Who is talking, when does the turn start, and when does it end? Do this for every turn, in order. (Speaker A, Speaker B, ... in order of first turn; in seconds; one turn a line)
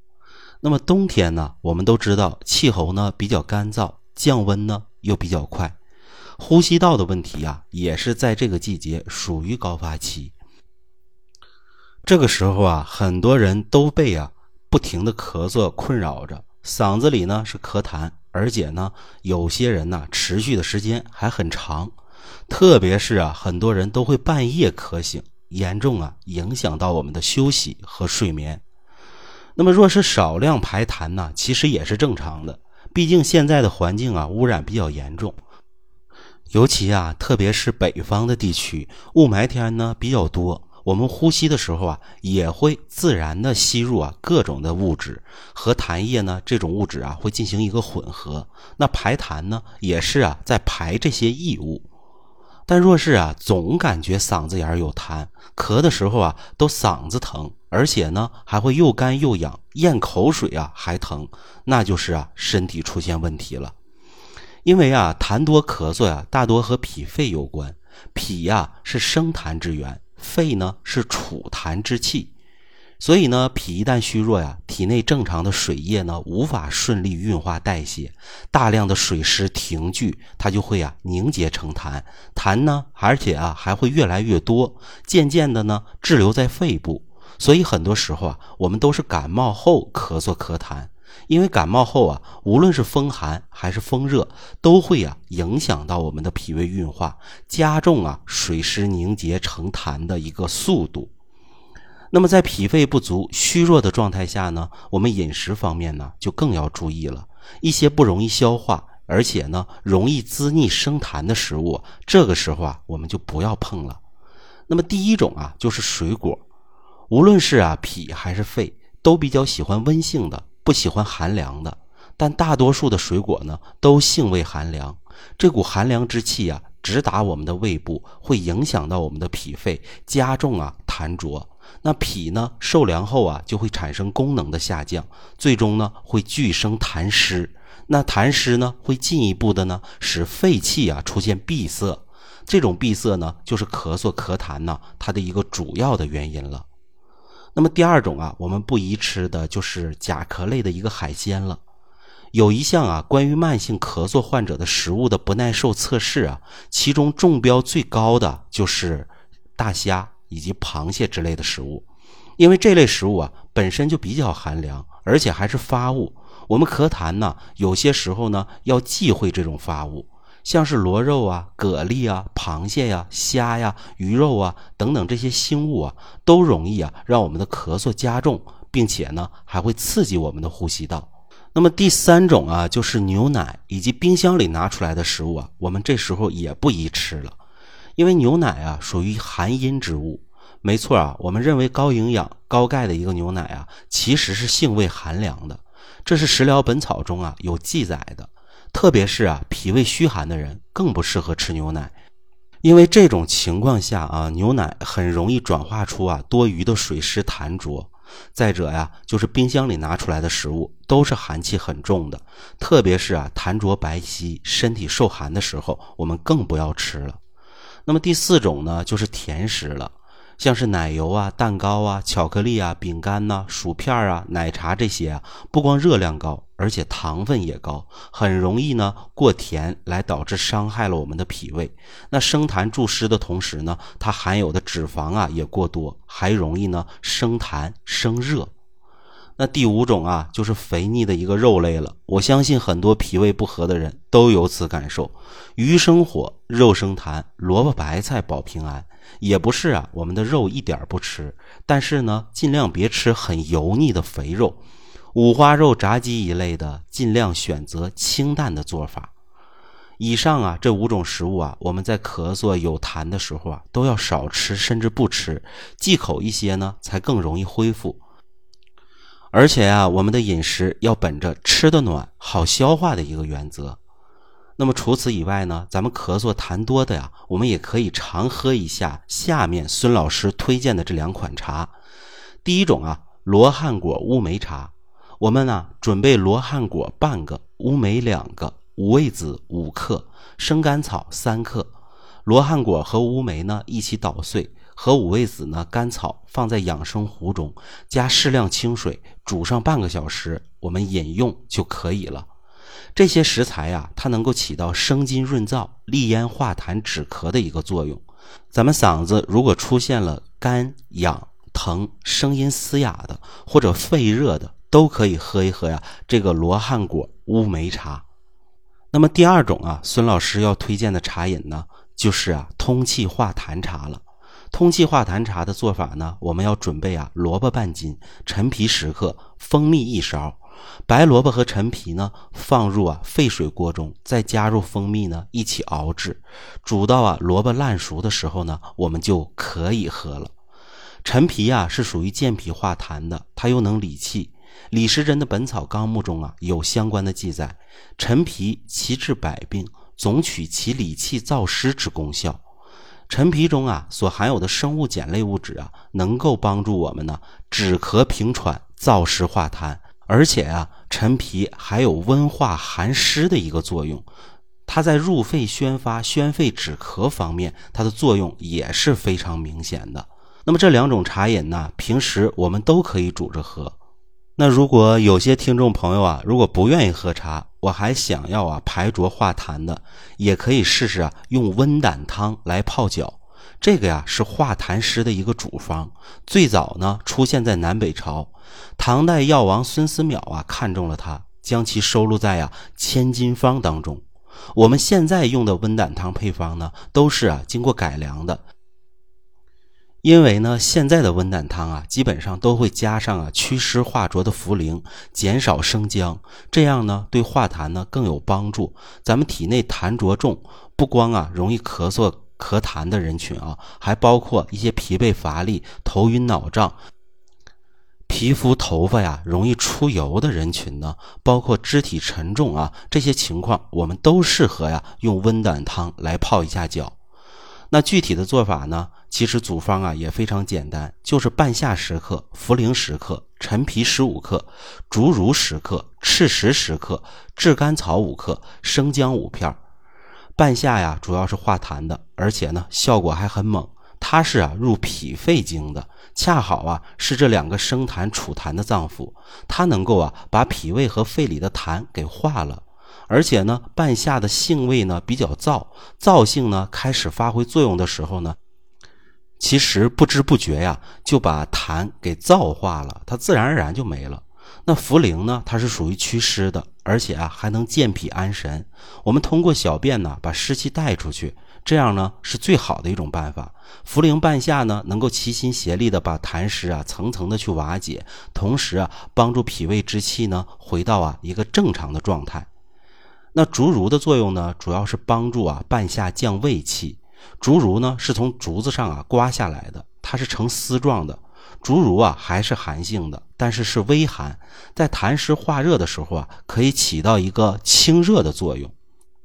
Speaker A: 0.6-5.8
Speaker A: 6.4-10.3
Speaker A: 12.0-21.9
Speaker A: 22.5-28.6
Speaker A: 29.6-35.4
Speaker A: 36.5-51.8
Speaker A: 52.7-63.7
Speaker A: 64.7-72.3
Speaker A: 73.0-101.1
Speaker A: 102.1-114.0
Speaker A: 114.7-116.4
Speaker A: 117.1-146.7
Speaker A: 147.6-151.6
Speaker A: 152.3-161.8
Speaker A: 162.4-187.4
Speaker A: 188.0-201.9
Speaker A: 202.6-217.2
Speaker A: 217.8-238.5
Speaker A: 239.4-254.6
Speaker A: 255.1-259.1
Speaker A: 260.0-268.0
Speaker A: 269.3-273.8
Speaker A: 274.6-281.7
Speaker A: 282.4-291.7
Speaker A: 292.2-302.3
Speaker A: 302.9-318.0
Speaker A: 318.9-340.3
Speaker A: 341.0-352.4
Speaker A: 353.1-364.1
Speaker A: 364.7-373.8
Speaker A: 374.4-398.4
Speaker A: 400.0-416.8
Speaker A: 418.1-426.9
Speaker A: 427.7-439.6
Speaker A: 440.4-458.4
Speaker A: 459.4-482.5
Speaker A: 483.3-498.7